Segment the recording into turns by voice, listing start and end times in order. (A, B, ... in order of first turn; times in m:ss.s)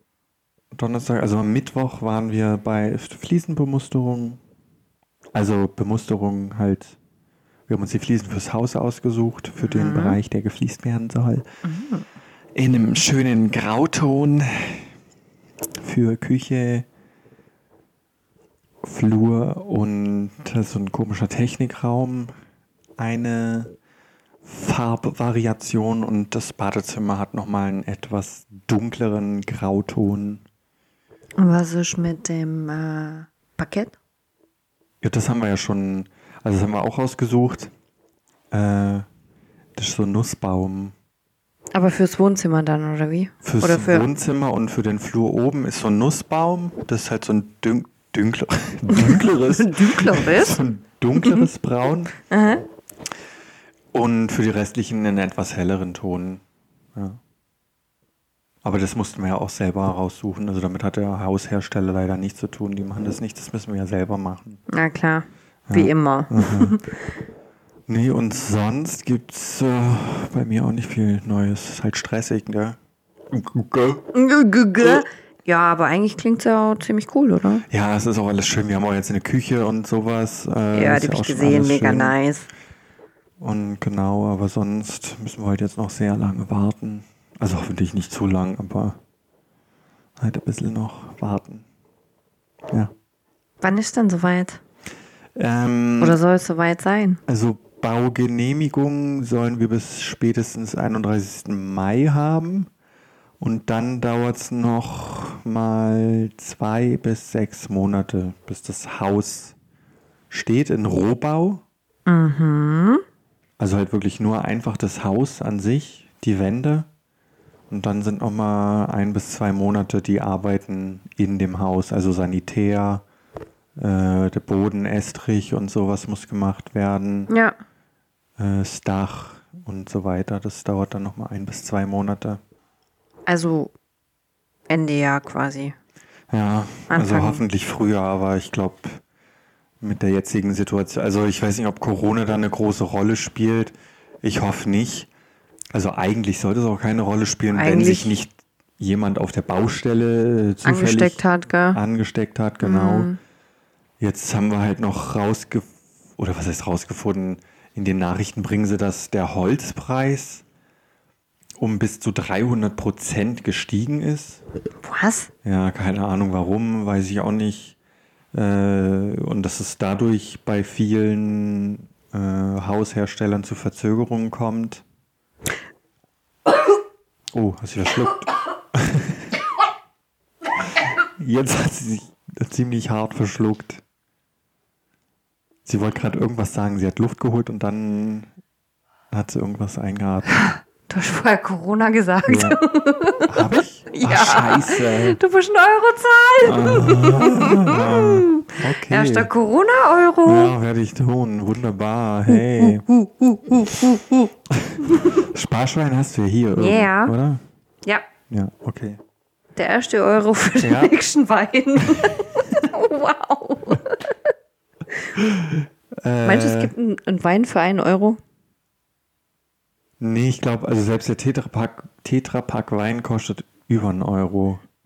0:00.7-0:04.4 A
0:05.3-0:07.0 A
0:07.7-0:11.4 A
0:09.6-0:10.2 B
0:11.6-0:12.0 B
0:12.5-0:14.9 A
0:15.8-0:16.8 A
0:18.8-0:22.3 A
0:23.0-0:23.7 A
0:24.4-0:30.4 A
0:31.4-0:33.9 B
0:35.0-0:37.7 A
0:38.5-0:39.0 A
0:39.8-0:40.9 A
0:41.7-0:44.1 B
0:43.4-0:52.1 A
0:48.9-0:50.6 B
0:51.2-0:51.4 B
0:52.2-0:52.6 B
0:53.9-0:56.4 A
0:56.9-0:57.2 A
0:58.6-1:04.6 A
1:04.7-1:06.9 B
1:05.7-1:06.8 A
1:07.9-1:12.8 A
1:13.3-1:14.0 A
1:14.1-1:17.6 B
1:17.7-1:22.2 A
1:20.7-1:22.5 B
1:23.4-1:29.0 A
1:30.2-1:31.6 A
1:33.6-1:34.6 B
1:35.4-1:36.2 A
1:36.0-1:37.2 B
1:37.3-1:42.7 A
1:43.4-1:49.5 A
1:50.3-1:51.6 A
1:52.0-1:53.0 B
1:53.6-1:56.9 A
1:57.7-2:03.0 A
2:03.8-2:07.3 A
2:07.3-2:07.5 B
2:08.4-2:12.4 A
2:13.3-2:13.7 B
2:14.7-2:15.7 B
2:16.3-2:19.0 A
2:16.9-2:17.4 B
2:19.8-2:25.1 A
2:25.7-2:31.2 A
2:27.5-2:28.2 B
2:30.6-2:31.8 B
2:31.7-2:33.1 A
2:32.6-2:33.2 B
2:34.0-2:40.4 A
2:41.6-2:44.4 A
2:44.8-2:45.3 B
2:45.4-2:47.8 A
2:48.3-2:54.8 A
2:57.3-2:59.3 A
3:01.2-3:03.8 A
3:05.6-3:08.3 A
3:09.1-3:10.3 A
3:10.3-3:13.4 B
3:12.3-3:12.6 A
3:13.3-3:15.2 A
3:13.9-3:20.5 B
3:16.4-3:19.3 A
3:20.2-3:22.8 A
3:22.3-3:24.3 B
3:24.5-3:27.4 A
3:26.6-3:27.1 B
3:28.3-3:29.0 A
3:29.6-3:34.1 B
3:30.6-3:30.9 A
3:35.2-3:36.7 A
3:36.2-3:38.2 B
3:40.0-3:44.6 A